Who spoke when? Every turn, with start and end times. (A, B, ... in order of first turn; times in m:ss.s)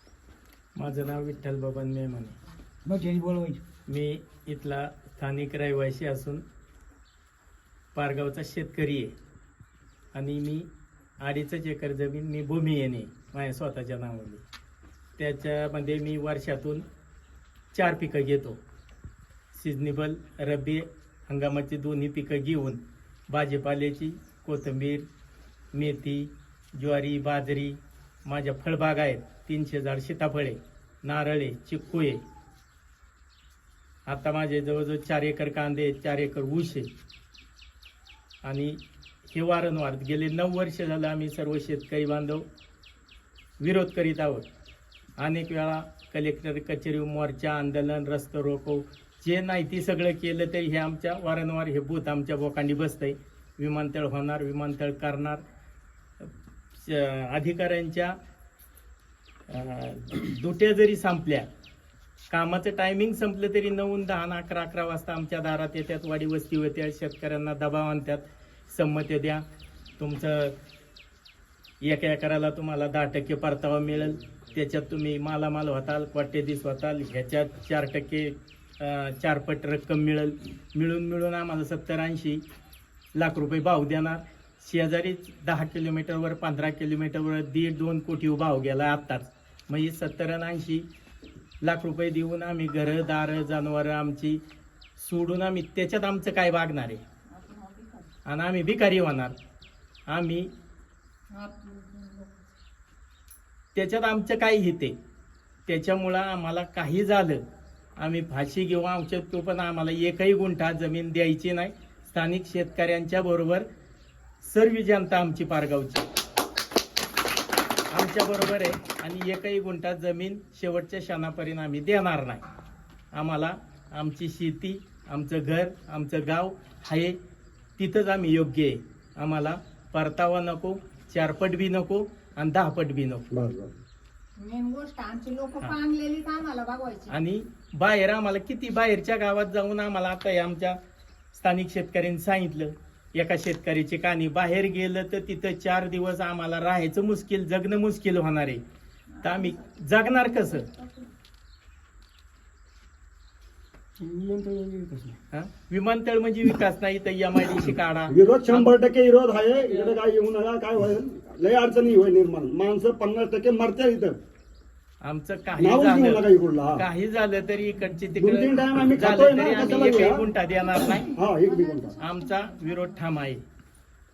0:00.8-0:02.4 A
0:02.8-0:03.6 B
0:03.9-0:06.4 A
0:07.9-0:09.1 A
0:10.1-0:10.7 A
0:11.2-0:14.4 A
0:15.2-0:16.8 A
0:17.7-0:18.6 A
0:19.5-0:25.0 A
0:25.7-0:32.2 A
0:34.1-0:36.9 A
0:38.4-0:42.4 A
0:43.6-0:44.4 A
0:45.2-0:55.4 A
0:56.2-0:58.2 A
0:59.5-1:01.5 A
1:02.3-1:09.4 A
1:10.0-1:10.5 A
1:11.8-1:22.4 A
1:23.2-1:30.8 A
1:31.6-1:34.4 A
1:35.0-1:37.0 A
1:37.4-1:38.0 C
1:38.2-1:39.3 A
1:40.1-1:40.5 A
1:41.3-1:42.3 C
1:43.7-1:44.9 A
1:45.7-1:47.4 A
1:48.0-1:53.6 A
1:54.4-1:56.1 A
1:57.9-2:02.4 A
2:03.1-2:07.2 A
2:07.8-2:13.3 A
2:13.3-2:13.8 D
2:14.4-2:17.1 C
2:17.1-2:20.8 A
2:21.3-2:28.6 A
2:29.2-2:30.7 A
2:34.0-2:35.2 B
2:35.3-2:38.8 A
2:38.1-2:44.2 D
2:45.0-2:46.2 A
2:45.6-2:46.8 D
2:46.8-2:51.1 A
2:48.2-2:50.2 D
2:50.6-2:52.8 C
2:51.1-2:52.0 D
2:52.0-2:53.4 A